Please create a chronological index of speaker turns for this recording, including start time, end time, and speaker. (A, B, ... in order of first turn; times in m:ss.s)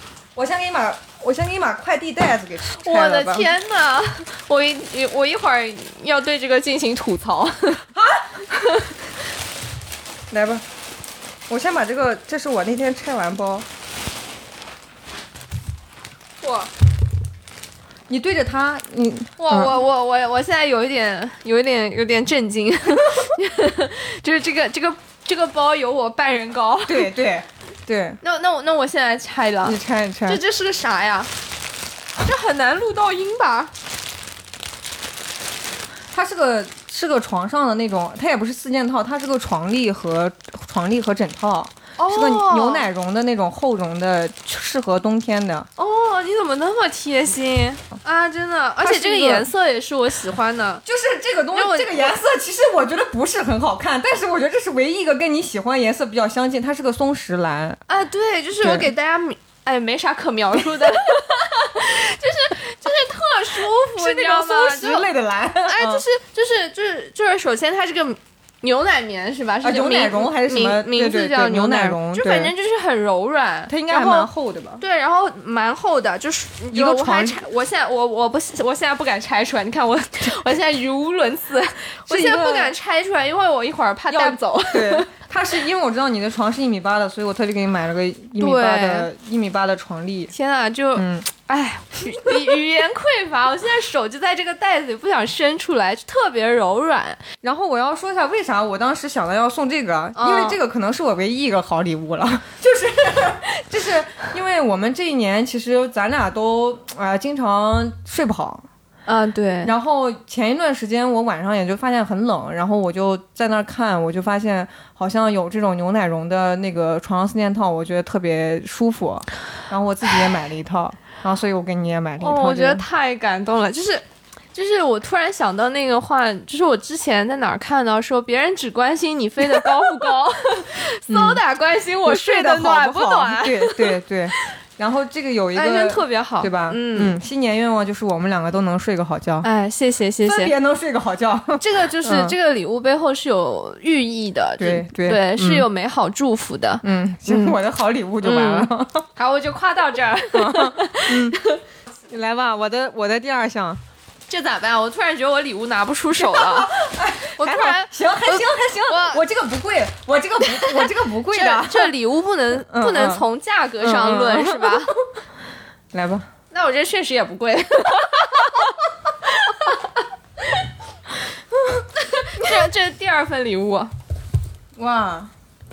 0:00.4-0:03.5 A
0:02.8-0:07.9 B
0:08.0-0:08.6 A
0:10.3-0:10.6 A
0:11.5-0:13.7 A
0:16.4-0:16.7 B
0:18.1-0:19.8 A
0:19.4-0:27.1 B
0:26.9-0:28.2 A
0:28.2-0:31.3 B
0:29.6-0:30.4 A
0:32.2-0:33.7 B
0:36.1-0:45.7 A
0:42.0-0:42.9 B
0:45.8-0:50.8 B
0:48.8-0:49.5 A
0:50.8-0:57.8 A
0:51.5-0:52.1 B
0:57.9-1:05.1 B
0:58.6-0:58.9 A
1:04.0-1:06.0 A
1:05.7-1:25.1 B
1:09.6-1:12.5 A
1:13.7-1:14.8 A
1:16.7-1:17.4 A
1:22.1-1:22.7 A
1:24.1-1:30.3 A
1:28.4-1:29.1 B
1:30.3-1:37.2 B
1:31.0-1:31.3 A
1:37.4-1:48.7 A
1:40.2-1:40.6 B
1:49.1-1:49.7 B
1:49.6-2:02.8 A
2:02.2-2:04.0 B
2:04.5-2:14.4 B
2:11.1-2:11.4 A
2:12.0-2:19.5 A
2:15.6-2:17.2 B
2:19.4-2:20.5 B
2:20.2-2:22.4 A
2:21.6-2:27.6 B
2:24.6-2:25.7 A
2:26.8-2:29.1 A
2:28.2-2:31.6 B
2:30.3-2:31.4 A
2:32.1-2:33.8 A
2:34.3-2:36.7 B
2:36.2-2:42.0 A
2:37.3-2:39.2 B
2:40.5-2:44.9 B
2:42.7-2:43.3 A
2:43.8-2:44.9 A
2:45.9-2:46.3 A
2:46.5-2:48.7 B
2:49.2-2:49.8 B
2:51.5-2:51.8 A
2:52.0-2:53.9 B
2:52.4-2:52.7 A
2:54.8-2:55.3 A